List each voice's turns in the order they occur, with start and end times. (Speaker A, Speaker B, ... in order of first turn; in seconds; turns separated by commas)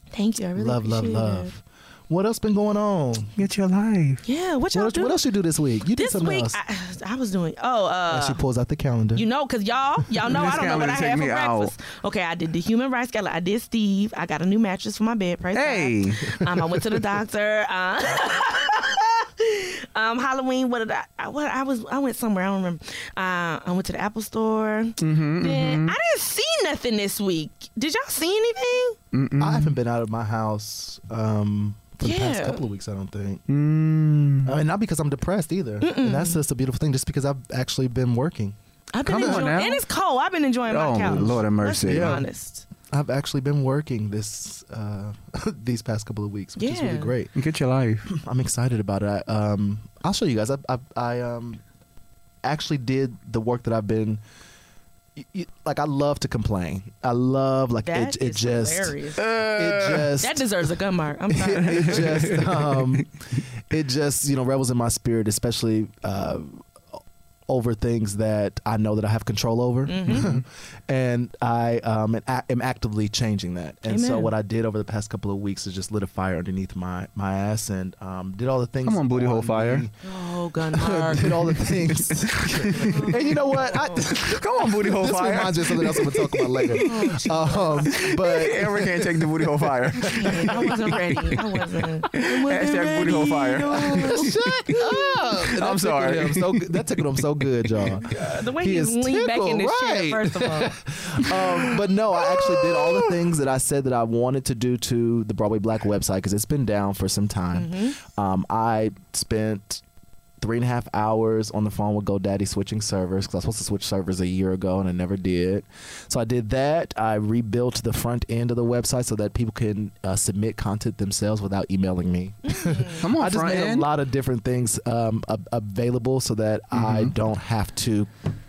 Speaker A: 0.1-1.5, Speaker B: 0.6-3.3, Speaker C: 3.4-4.2, Speaker A: 4.2-5.2, Speaker B: 4.7-6.6, Speaker A: 5.9-8.4, Speaker B: 8.1-9.2, Speaker A: 9.1-29.0, Speaker C: 10.2-11.7, Speaker C: 15.5-16.4, Speaker C: 25.0-26.0, Speaker C: 29.1-29.8, Speaker B: 29.4-33.4, Speaker A: 32.0-32.6, Speaker C: 33.5-34.6, Speaker B: 34.4-39.6, Speaker A: 35.8-36.4, Speaker A: 38.9-42.6, Speaker C: 39.0-39.8, Speaker C: 40.7-42.2, Speaker B: 41.1-42.3, Speaker B: 42.9-47.3, Speaker A: 46.6-47.1, Speaker C: 47.3-48.1, Speaker B: 48.1-51.6, Speaker B: 52.4-54.2, Speaker B: 55.1-60.4, Speaker A: 57.8-59.2, Speaker C: 59.2-60.1, Speaker A: 60.2-62.3, Speaker B: 61.3-63.1, Speaker C: 61.7-63.0, Speaker B: 63.7-66.6, Speaker B: 67.5-79.9, Speaker A: 69.8-70.3, Speaker C: 70.1-70.4, Speaker A: 73.9-74.3, Speaker C: 78.8-79.8, Speaker A: 80.0-81.3, Speaker B: 80.7-89.5, Speaker C: 81.2-83.0, Speaker A: 82.8-84.0, Speaker C: 84.0-87.2, Speaker A: 86.7-88.0, Speaker C: 87.9-91.4, Speaker B: 90.1-90.5, Speaker A: 90.1-94.8, Speaker C: 92.1-98.1, Speaker B: 93.7-109.8, Speaker A: 98.0-100.8, Speaker C: 102.4-103.0, Speaker A: 107.5-108.0, Speaker B: 110.4-128.1, Speaker A: 122.6-123.0, Speaker C: 123.0-123.9, Speaker C: 126.7-127.1